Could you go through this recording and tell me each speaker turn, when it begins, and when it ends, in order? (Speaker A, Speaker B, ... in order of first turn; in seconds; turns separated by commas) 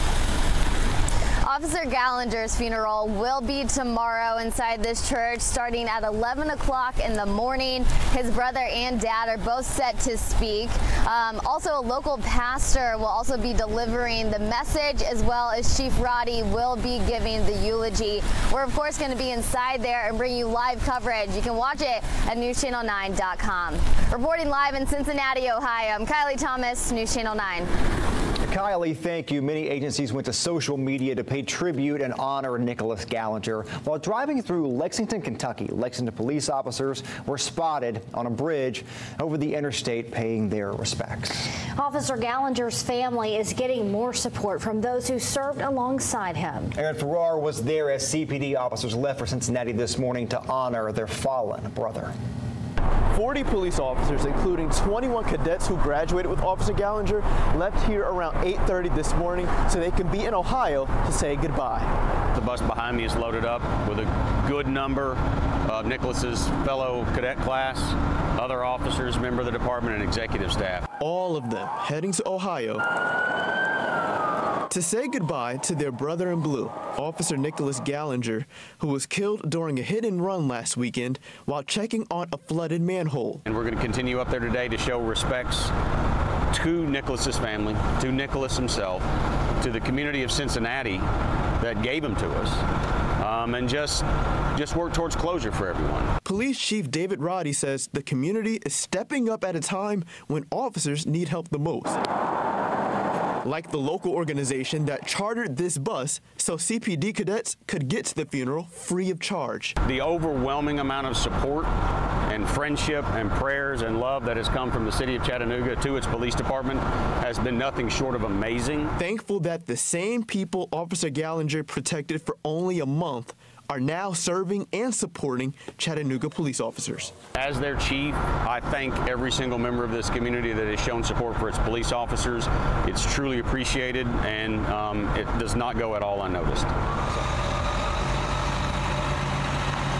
Speaker A: 1.4-27.7, Speaker B: 28.4-41.5, Speaker C: 41.8-46.7, Speaker B: 46.8-52.1, Speaker D: 53.1-61.9, Speaker E: 62.3-70.9, Speaker D: 71.0-72.8, Speaker D: 74.7-83.4, Speaker E: 83.5-85.7, Speaker E: 86.5-89.1, Speaker E: 89.6-91.0, Speaker E: 91.6-92.6, Speaker E: 93.2-96.1, Speaker D: 96.2-102.0, Speaker D: 103.4-109.8, Speaker E: 109.8-111.7, Speaker E: 112.3-118.9, Speaker D: 119.0-127.2, Speaker E: 127.3-136.7